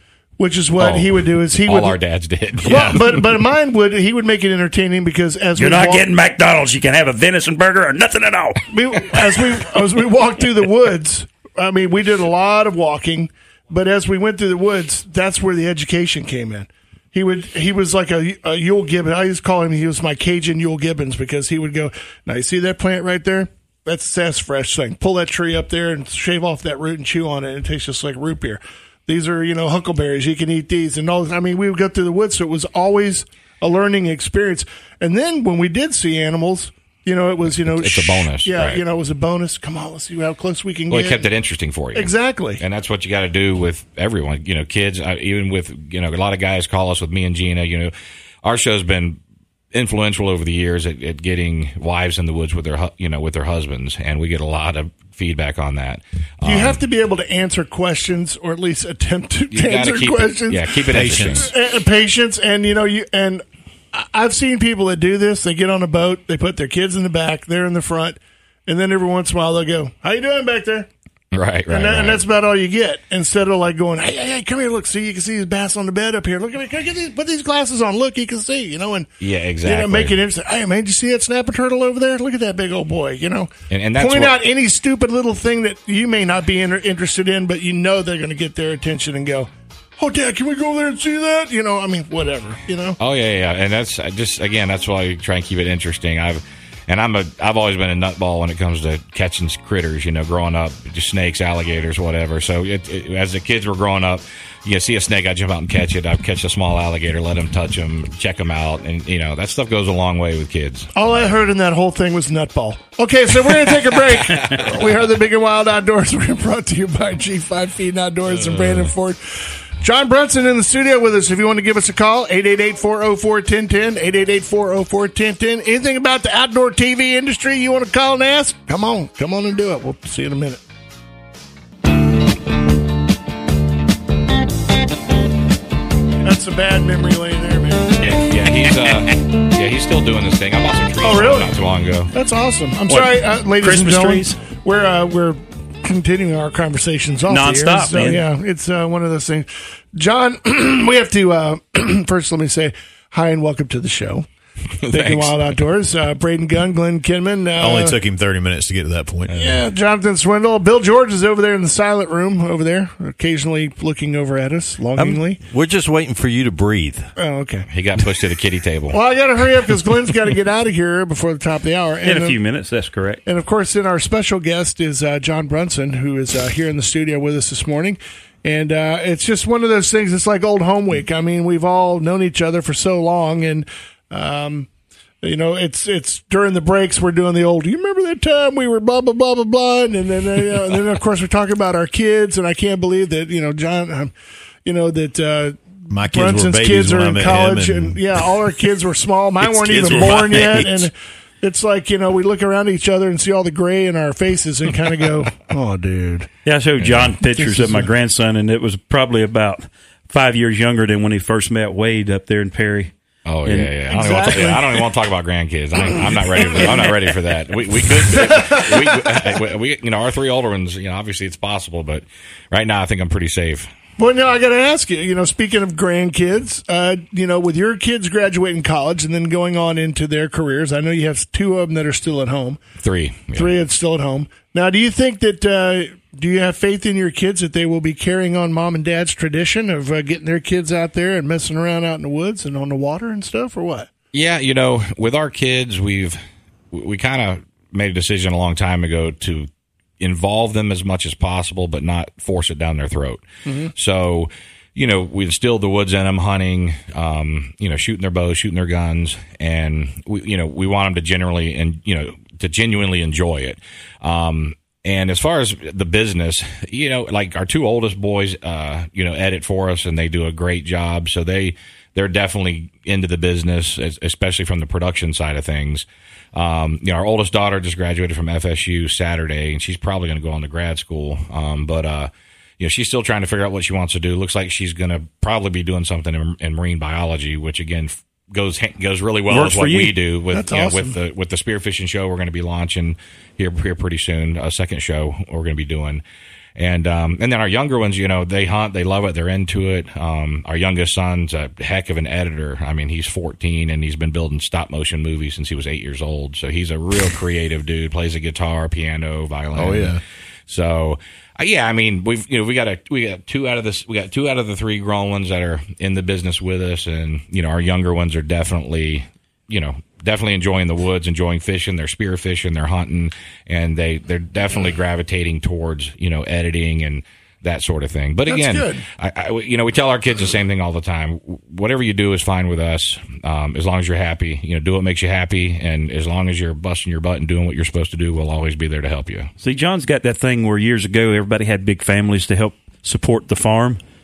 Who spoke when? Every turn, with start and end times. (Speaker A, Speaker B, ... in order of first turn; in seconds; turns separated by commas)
Speaker A: 0.4-2.0, Speaker B: 0.8-3.2, Speaker C: 2.6-3.0, Speaker A: 2.6-6.1, Speaker D: 5.5-9.2, Speaker A: 8.7-41.3, Speaker B: 37.6-38.8, Speaker B: 40.9-47.9, Speaker A: 41.9-42.6, Speaker B: 48.4-49.2, Speaker B: 49.7-56.8, Speaker A: 56.4-70.9, Speaker B: 59.5-61.5, Speaker C: 60.9-61.5, Speaker B: 71.3-72.2, Speaker A: 71.7-79.1, Speaker B: 79.2-80.1, Speaker A: 79.6-93.0, Speaker B: 83.7-84.3, Speaker B: 93.0-110.9, Speaker A: 110.9-130.6, Speaker B: 114.4-114.7, Speaker B: 118.5-118.9, Speaker A: 136.2-138.1, Speaker B: 138.0-142.1, Speaker A: 141.0-141.6, Speaker A: 142.1-154.2, Speaker D: 142.9-144.4, Speaker D: 147.3-148.3, Speaker B: 154.8-155.6, Speaker A: 154.9-158.0, Speaker C: 157.6-159.4, Speaker B: 159.3-159.6, Speaker A: 159.3-165.4, Speaker E: 164.9-167.1, Speaker A: 167.2-167.7, Speaker B: 167.7-169.0, Speaker A: 168.9-172.4, Speaker D: 172.0-173.2, Speaker A: 173.2-184.7, Speaker A: 185.2-194.1, Speaker A: 194.6-206.3, Speaker C: 195.9-198.2, Speaker C: 199.4-200.9, Speaker D: 206.4-212.9, Speaker B: 206.8-207.1, Speaker A: 207.3-207.9, Speaker B: 213.2-223.7, Speaker D: 213.4-213.8, Speaker A: 213.9-214.9, Speaker A: 215.9-217.0, Speaker A: 217.9-219.4, Speaker A: 224.0-232.6, Speaker B: 232.8-233.5, Speaker A: 233.3-243.9, Speaker B: 244.1-246.2, Speaker B: 246.7-249.5, Speaker B: 250.0-253.2, Speaker A: 253.4-253.7, Speaker B: 253.7-296.0, Speaker D: 289.3-290.0, Speaker A: 290.3-291.0, Speaker B: 296.6-339.3, Speaker C: 309.5-310.0, Speaker A: 328.3-328.8, Speaker D: 339.4-343.8